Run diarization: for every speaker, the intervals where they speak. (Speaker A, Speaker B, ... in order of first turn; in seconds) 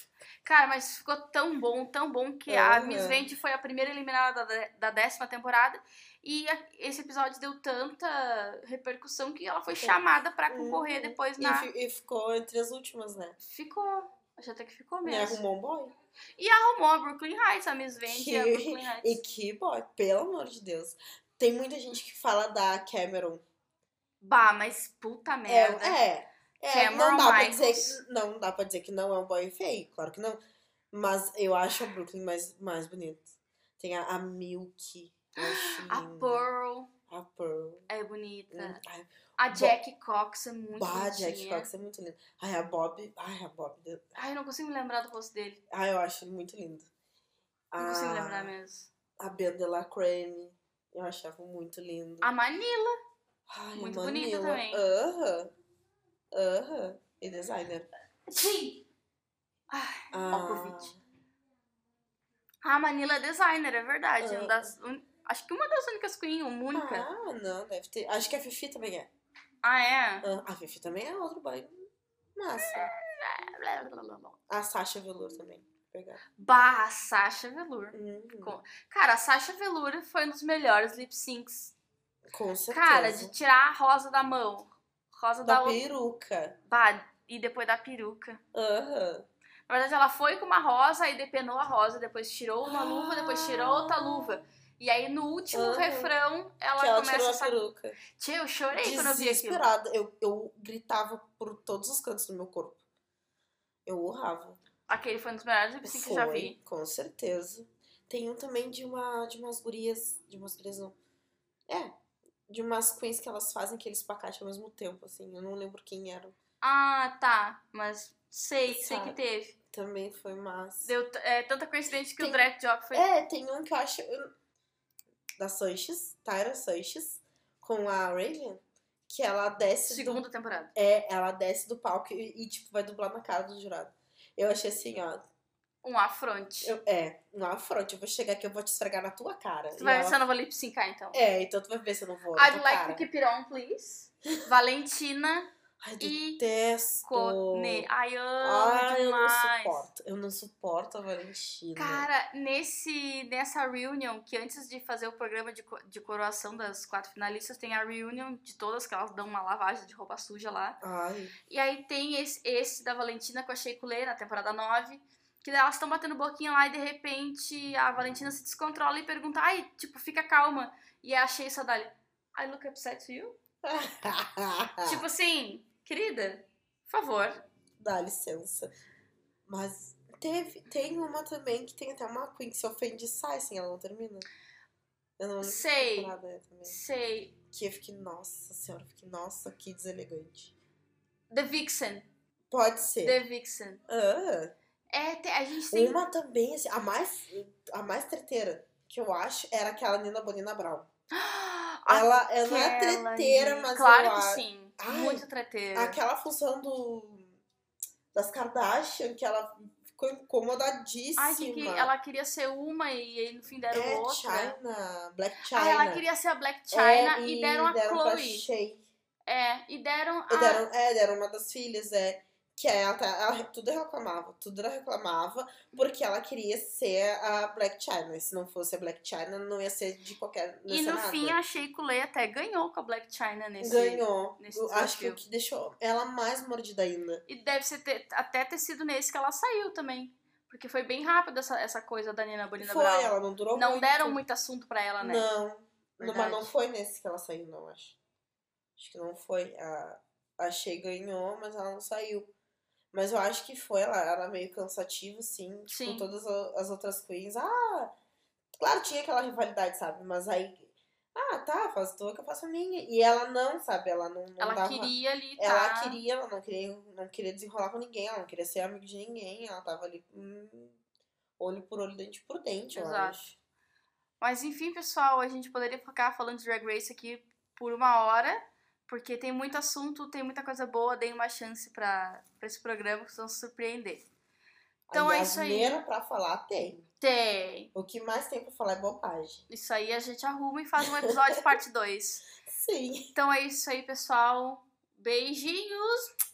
Speaker A: 0.4-11.7, 13.4-15.4, 16.4-19.2, 24.2-26.0, 26.7-28.0, 35.4-36.9, 37.9-38.8, 39.4-41.7, 44.1-45.6, 47.8-48.9, 52.2-53.0, 53.7-54.8, 58.3-58.9, 59.7-60.9, 62.6-67.1, 69.6-70.3, 72.6-74.4, 76.4-81.7, 82.7-85.8, 86.7-88.4, 89.7-97.6, 98.1-99.6, 104.9-106.6, 116.6-119.6, 120.8-123.1, 129.8-130.7, 135.8-136.7, 139.8-141.2, 142.3-145.5, 146.0-146.4, 147.1-149.8, 151.8-160.8, 161.5-173.4, 174.8-177.4, 185.4-187.3, 191.3-192.1, 193.0-193.8, 194.9-196.0, 201.1-206.0, 211.2-214.6, 215.5-218.5, 219.3-220.7, 230.7-235.2, 237.3-245.3, 246.0-246.5, 255.7-256.1, 264.4-266.0, 272.7-273.2, 274.2-284.1, 284.9-285.8, 287.0-287.7, 289.5-292.3, 293.1-296.1
Speaker B: 2.5-3.2, 9.7-13.4, 15.0-15.9, 18.0-23.4, 25.5-30.4, 30.9-36.5, 37.1-37.9, 38.5-39.8, 40.7-44.2, 45.7-46.9, 47.7-48.5, 49.2-52.3, 53.5-55.5, 56.3-57.9, 60.1-61.0, 64.2-64.7, 66.7-69.1, 70.2-72.9, 74.5-76.2, 77.9-78.6, 82.3-83.3, 85.4-86.5, 88.5-89.2, 92.7-94.4, 95.5-96.1, 96.8-98.0, 98.7-102.8, 103.8-104.6, 105.8-110.9, 112.5-116.3, 118.7-119.2, 119.7-120.9, 122.2-124.3, 125.4-130.2, 130.8-135.2, 136.6-140.2, 141.1-143.0, 145.8-147.9, 148.4-152.1, 160.8-161.3, 173.6-175.0, 177.8-178.7, 179.5-184.3, 185.2-186.8, 187.5-190.5, 192.5-193.2, 193.9-194.5, 195.7-200.9, 201.9-207.3, 208.1-211.9, 213.7-216.1, 216.7-218.8, 220.3-231.4, 233.6-237.2, 242.6-244.2, 245.0-248.0, 248.8-252.3, 252.9-257.9, 258.6-270.8, 271.4-273.3, 284.9-286.9, 287.7-289.4, 290.8-291.1, 292.4-293.1